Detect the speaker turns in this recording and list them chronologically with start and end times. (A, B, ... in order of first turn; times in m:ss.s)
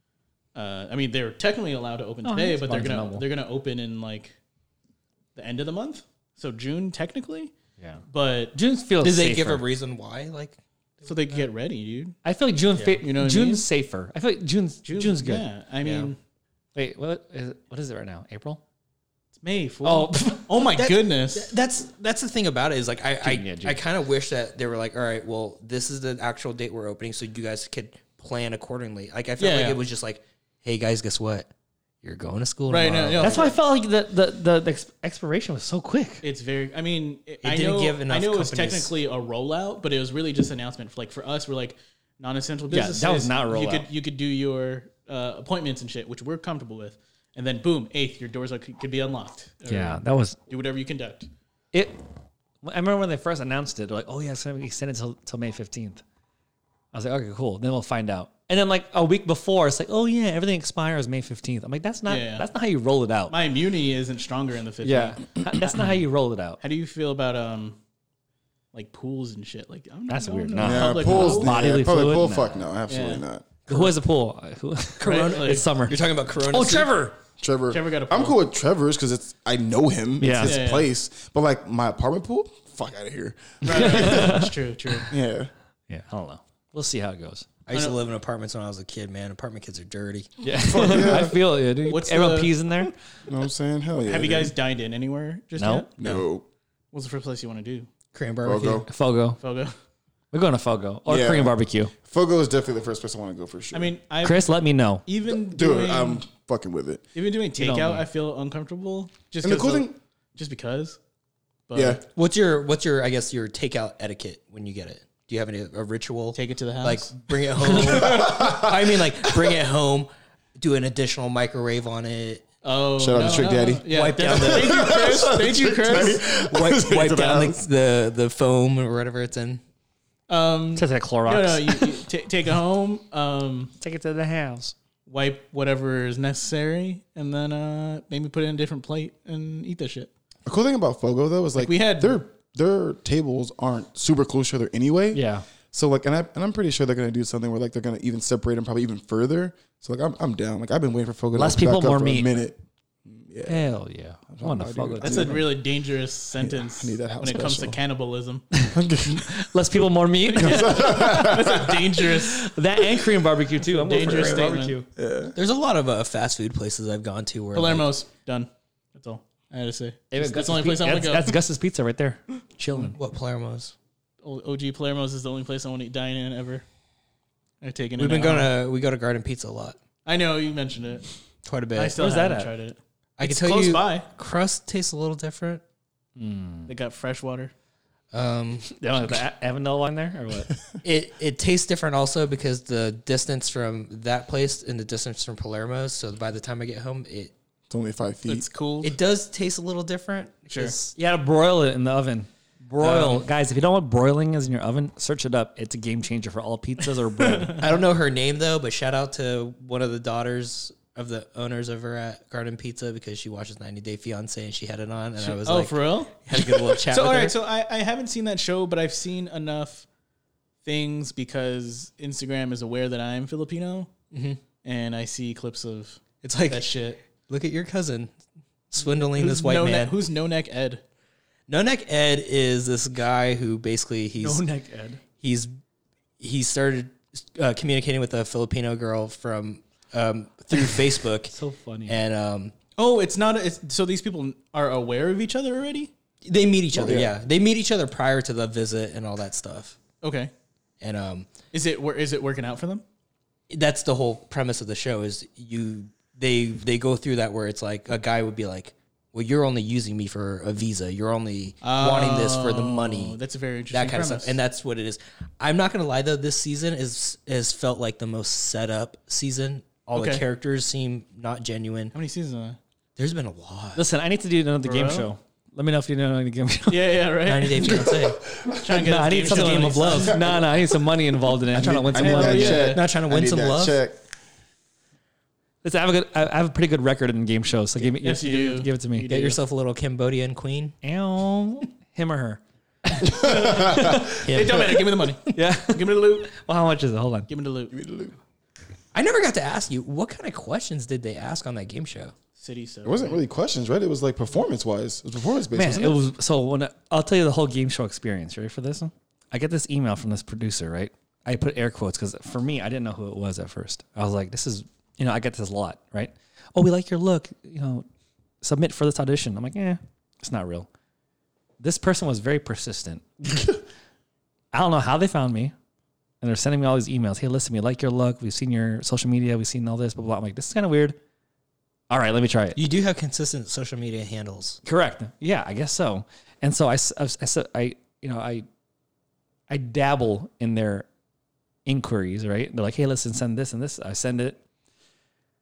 0:00.6-0:04.4 A
0:02.2-0:03.2 B
0:05.4-0:07.5 A
0:08.1-0:08.6 A
0:08.5-0:09.6 B
0:09.0-0:10.6 C
0:11.0-0:12.2 A
0:12.2-0:16.1 B
0:12.8-0:13.6 A
0:14.8-0:16.2 A
0:16.8-0:18.6 B
0:19.4-0:21.5 A
0:19.8-0:20.4 B
0:20.6-0:31.5 C
0:23.2-0:23.8 B
0:29.4-0:29.8 A
0:32.0-0:33.5 C
0:32.7-0:33.6 A
0:33.2-0:36.2 B
0:36.2-0:51.3 A
0:37.4-0:38.9 C
0:42.7-0:43.9 B
0:49.7-0:50.4 B
0:51.7-0:52.0 B
0:52.6-0:56.0 B
0:56.9-1:03.4 B
1:02.1-1:02.5 A
1:03.3-1:05.9 A
1:04.8-1:06.6 B
1:06.6-1:07.8 A
1:08.7-1:11.6 A
1:10.1-1:12.6 B
1:10.6-1:13.5 D
1:12.9-1:13.2 A
1:13.7-1:14.0 C
1:13.7-1:17.2 B
1:15.0-1:16.9 C
1:15.0-1:15.7 A
1:17.4-1:24.4 D
1:17.7-1:18.4 A
1:20.2-1:20.6 B
1:20.4-1:20.9 A
1:23.6-1:25.1 A
1:23.7-1:24.5 B
1:25.1-1:25.5 D
1:25.9-1:27.5 B
1:27.7-1:30.3 C
1:27.7-1:28.0 A
1:30.4-1:32.9 B
1:30.6-1:31.4 D
1:30.8-1:31.2 A
1:31.8-1:32.9 A
1:33.3-1:34.5 D
1:34.1-1:36.1 A
1:35.6-1:35.9 B
1:36.0-1:36.5 D
1:36.9-1:37.9 A
1:38.1-1:38.8 C
1:38.4-1:38.9 D
1:38.9-1:39.4 B
1:39.4-1:39.8 A
1:40.3-1:41.9 B
1:41.1-1:43.9 D
1:43.7-1:46.2 A
1:44.2-1:45.0 B
1:45.3-1:47.0 D
1:47.2-1:51.0 A
1:47.6-1:48.1 B
1:49.4-1:50.0 D
1:51.7-1:52.0 A
1:51.7-1:52.0 D
1:52.1-2:02.4 C
1:56.4-1:58.3 A
1:57.7-1:59.3 D
2:02.6-2:06.2 A
2:03.0-2:07.6 D
2:03.9-2:05.3 C
2:06.0-2:09.6 C
2:10.3-2:13.7 A
2:10.8-2:12.0 B
2:13.8-2:14.8 B
2:15.1-2:20.1 A
2:20.5-2:33.7 D
2:21.6-2:22.2 A
2:25.1-2:25.5 B
2:31.4-2:32.3 B
2:33.5-2:35.4 B
2:34.3-2:35.6 D
2:35.0-2:38.4 A
2:36.4-2:37.8 D
2:38.6-2:41.5 B
2:38.7-2:39.5 D
2:40.2-2:42.5 A
2:40.4-2:42.1 D
2:42.2-2:44.9 B
2:42.8-2:43.3 D
2:43.7-2:44.8 A
2:45.0-2:45.4 D
2:45.4-2:47.9 C
2:47.5-2:51.4 A
2:50.1-2:53.0 B
2:52.9-2:53.7 C
2:54.2-2:56.6 A
2:57.6-2:58.5 A
2:58.0-2:59.8 C
3:00.0-3:01.0 A
3:01.4-3:02.0 C
3:01.8-3:04.1 A
3:02.0-3:02.5 B
3:03.2-3:05.6 C
3:06.2-3:06.7 B
3:06.7-3:07.5 A
3:08.1-3:08.7 C
3:08.7-3:10.5 B
3:10.8-3:17.3 C
3:17.7-3:18.5 D
3:18.3-3:19.0 A
3:18.8-3:21.0 C
3:20.5-3:20.8 A
3:21.0-3:27.6 B
3:22.8-3:23.2 C
3:27.2-3:27.7 A
3:27.6-3:37.4 C
3:35.2-3:39.9 A
3:40.6-3:43.9 A
3:44.1-3:44.4 C
3:44.6-3:47.0 A
3:46.2-3:48.1 C
3:48.7-3:50.0 C
3:48.9-3:50.8 A
3:51.5-3:54.4 C
3:54.2-3:55.0 B
3:55.2-3:55.5 C
3:56.2-4:01.3 C
4:01.3-4:02.0 B
4:01.9-4:02.5 C
4:02.8-4:05.9 A
4:06.2-4:09.8 C
4:06.7-4:07.1 D
4:10.0-4:10.3 A
4:10.8-4:11.3 C
4:11.5-4:12.8 A
4:13.5-4:23.2 C
4:21.6-4:24.4 A
4:23.7-4:31.9 C
4:29.9-4:30.2 A
4:31.9-4:32.6 A
4:33.0-4:33.8 C
4:33.8-4:36.9 B
4:34.6-4:35.1 A
4:36.7-4:37.9 A
4:37.3-4:38.2 C
4:37.6-4:38.9 D
4:38.5-4:40.4 A
4:38.7-4:42.7 B
4:40.1-4:40.4 D
4:41.5-4:44.0 D
4:41.9-4:42.8 A
4:42.4-4:43.8 C
4:45.6-4:49.1 B
4:47.9-4:49.4 A
4:49.1-4:50.8 C
4:50.8-4:54.1 B
4:53.0-4:54.6 D
4:53.2-4:56.3 A
4:54.2-4:54.9 C
4:55.3-4:57.3 B
4:57.3-4:57.7 A
4:57.7-4:58.2 D
4:58.9-5:02.1 C
5:02.4-5:03.2 A
5:02.8-5:06.0 D
5:05.5-5:17.9 B
5:18.4-5:20.7 B
5:21.6-5:23.6 B
5:24.5-5:25.5 B
5:26.2-5:31.0 B
5:31.9-5:32.6 B
5:32.6-5:34.6 C
5:34.6-5:38.5 B
5:39.5-5:40.9 B
5:41.7-5:44.4 B